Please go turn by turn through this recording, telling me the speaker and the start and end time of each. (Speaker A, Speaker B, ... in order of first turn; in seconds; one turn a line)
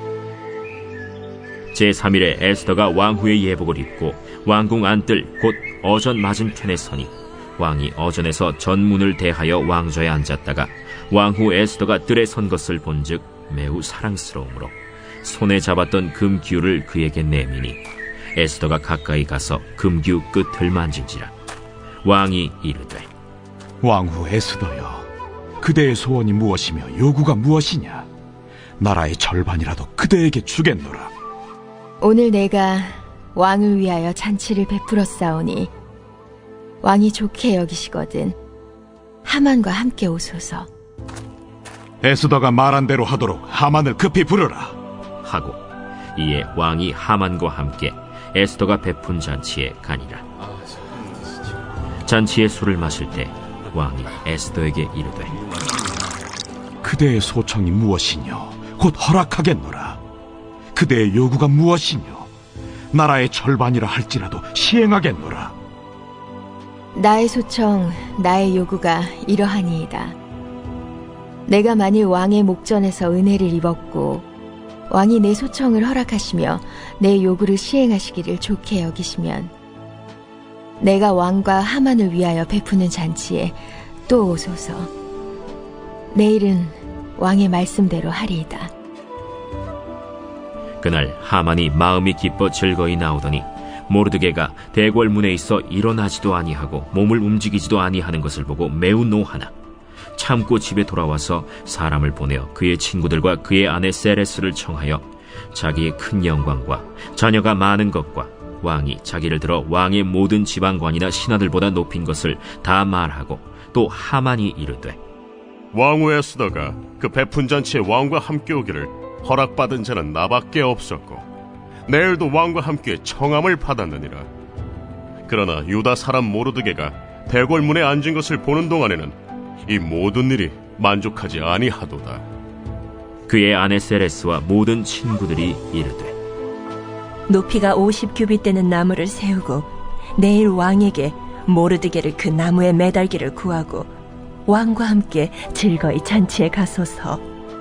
Speaker A: 1.7-17.8
Speaker A: 18.3-21.3
Speaker A: 22.0-23.1
Speaker B: 23.8-25.1
Speaker B: 25.6-28.1
Speaker B: 28.8-31.1
Speaker C: 32.0-35.7
Speaker C: 36.8-38.3
Speaker C: 39.2-40.7
Speaker B: 42.0-44.8
Speaker A: 45.2-45.6
Speaker A: 46.1-50.2
Speaker A: 52.0-55.4
Speaker B: 56.8-60.0
Speaker B: 60.7-62.3
Speaker B: 62.9-65.5
Speaker C: 66.9-70.2
Speaker C: 71.5-74.2
Speaker C: 74.9-79.5
Speaker C: 80.8-83.6
Speaker C: 84.1-84.9
Speaker C: 86.1-88.7
Speaker A: 90.8-99.5
Speaker A: 100.1-115.0
Speaker D: 115.7-121.2
Speaker D: 121.9-124.3
Speaker D: 125.3-129.1
Speaker D: 129.7-132.2
Speaker A: 133.3-136.2
Speaker E: 137.3-143.9
Speaker E: 144.5-147.2